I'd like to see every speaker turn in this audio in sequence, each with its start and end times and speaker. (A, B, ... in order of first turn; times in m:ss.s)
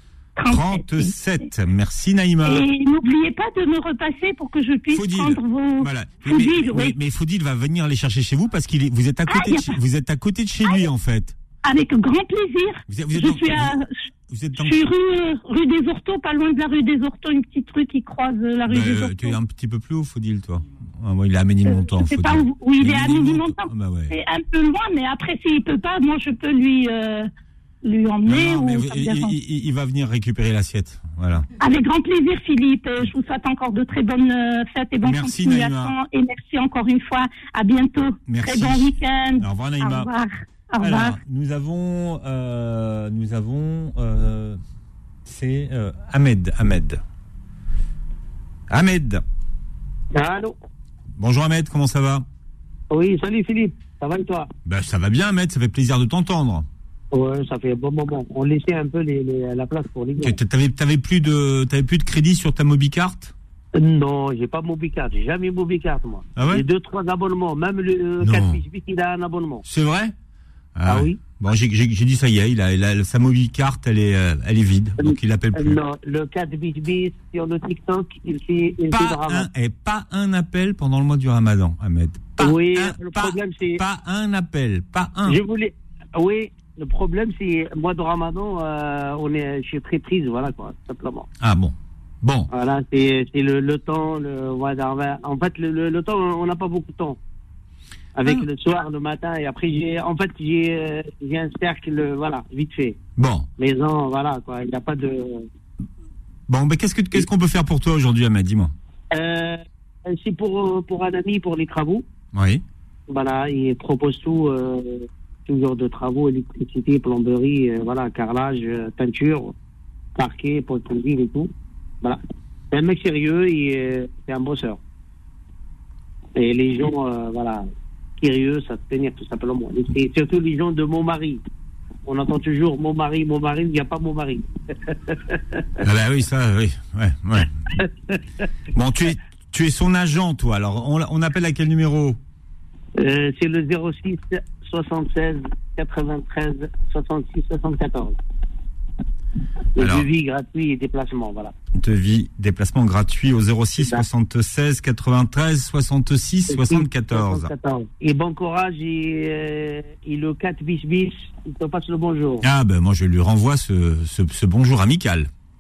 0:00.4-0:01.1 A
0:00.5-0:02.6 B
0:02.4-0:06.9 A
0:04.9-0:11.3 B
0:09.3-0:09.8 A
0:11.6-0:13.9 A
0:12.9-0:13.8 B
0:14.3-0:14.8 B
0:14.6-0:19.4 A
0:18.7-0:24.1 B
0:21.6-0:27.3 A
0:27.8-0:29.4 A
0:28.2-0:31.4 B
0:31.6-0:41.2 A
0:35.0-0:35.9 B
0:38.3-0:40.1 B
0:40.8-0:44.6 B
0:45.2-0:47.0 B
0:48.7-0:49.2 B
0:50.1-0:50.6 C
0:51.2-0:52.2 B
0:52.9-0:54.5 C
0:54.6-0:56.6 B
0:57.1-1:00.4 C
1:00.2-1:03.3 B
1:03.8-1:09.6 C
1:06.3-1:06.6 B
1:08.2-1:08.6 B
1:09.6-1:10.1 B
1:10.8-1:15.8 B
1:10.8-1:11.2 C
1:15.0-1:19.4 C
1:18.9-1:25.4 B
1:22.4-1:23.8 C
1:25.2-1:31.3 C
1:31.4-1:32.5 B
1:32.5-1:37.2 C
1:38.2-1:43.0 C
1:43.2-1:43.5 B
1:43.6-1:45.4 C
1:46.5-1:48.7 B
1:49.1-1:52.0 C
1:52.3-1:52.6 B
1:53.1-1:59.5 C
2:00.2-2:01.5 C
2:02.7-2:04.8 C
2:06.4-2:07.7 C
2:08.2-2:11.4 C
2:12.0-2:15.6 C
2:15.8-2:17.5 B
2:17.8-2:18.2 C
2:18.7-2:22.2 B
2:23.0-2:28.2 C
2:29.8-2:30.0 B
2:29.8-2:31.5 C
2:31.8-2:37.5 B
2:33.8-2:34.0 C
2:36.5-2:42.4 C
2:42.4-2:45.3 B